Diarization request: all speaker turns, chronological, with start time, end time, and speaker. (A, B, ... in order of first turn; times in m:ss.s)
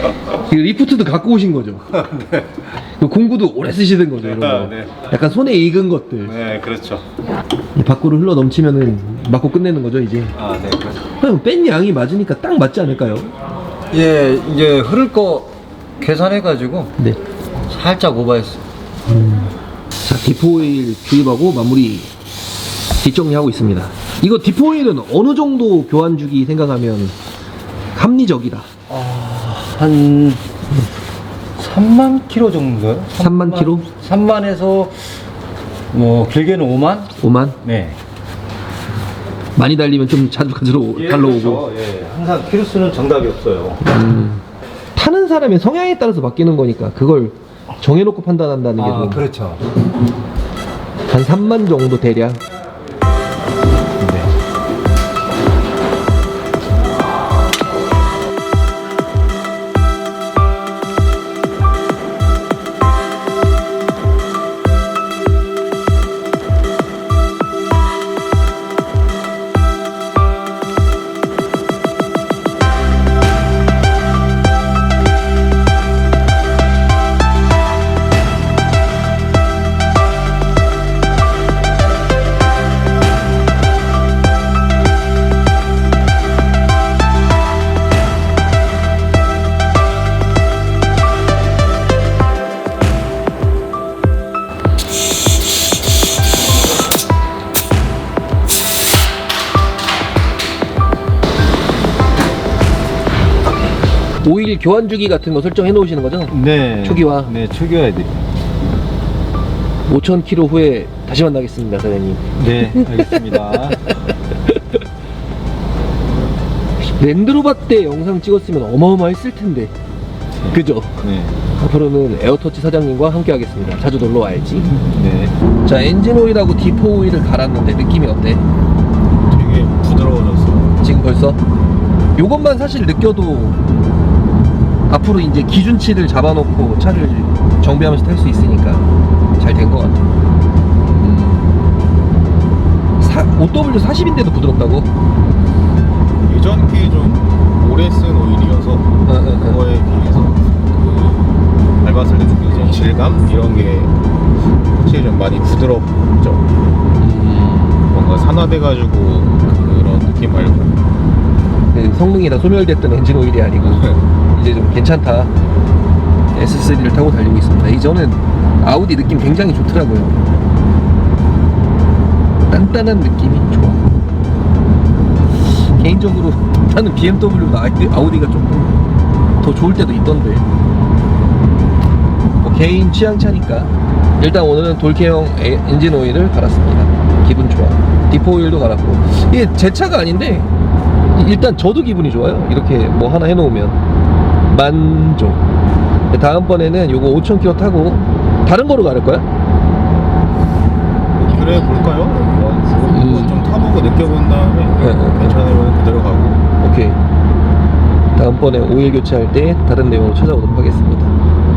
0:00.3-0:01.9 A
0:01.9-0:02.6 B
0:03.0-0:06.3 A
0:04.2-0:05.0 B
0:06.3-0:07.1 B
0:07.8-0:10.4 A
0:10.4-0:11.1 B
0:11.2-0:13.3 A
0:13.9-0:17.0 B
0:17.7-0:18.6 B
0:19.1-0:19.5 A
0:20.0-0:22.1 A
0:23.0-0:27.2 A
0:27.9-0:28.7 A
0:28.9-0:30.4 B
0:31.6-0:35.2 B
0:33.2-0:33.9 A
0:35.9-0:37.1 B
0:37.2-0:37.6 A
0:37.6-0:38.0 B
0:39.6-0:41.6 A
0:40.9-0:43.8 B
0:43.8-0:44.4 A
0:45.0-0:49.2 A
0:48.8-0:49.6 B
0:51.1-0:52.4 A
0:54.0-0:54.3 B
1:44.2-1:47.3 A
1:46.3-1:48.2 B
1:49.9-1:53.2 A
1:52.4-1:53.9 B
1:57.0-1:59.7 A
2:00.5-2:01.0 A
2:01.0-2:01.4 B
2:01.6-2:04.7 A
2:04.8-2:05.4 B
2:05.6-2:08.4 A
2:09.3-2:10.8 C
2:10.8-2:11.4 A
2:12.2-2:13.6 A
2:14.9-2:18.9 A
2:19.4-2:20.0 A
2:23.0-2:24.9 A
2:26.3-2:30.4 C
2:29.1-2:29.6 A
2:31.8-2:34.0 C
2:34.7-2:36.5 C
2:37.0-2:37.8 A
2:37.9-2:40.8 C
2:41.7-2:45.3 A
2:46.3-2:50.2 A
2:52.5-2:53.9 A
2:55.6-2:58.9 A
2:59.4-3:00.5 A
3:02.4-3:10.5 A
3:11.1-3:13.8 A
3:14.5-3:15.4 A
3:16.1-3:19.3 A
3:21.2-3:26.4 C
3:22.9-3:23.4 A
3:24.8-3:25.4 A
3:26.6-3:27.0 A
3:28.2-3:31.1 A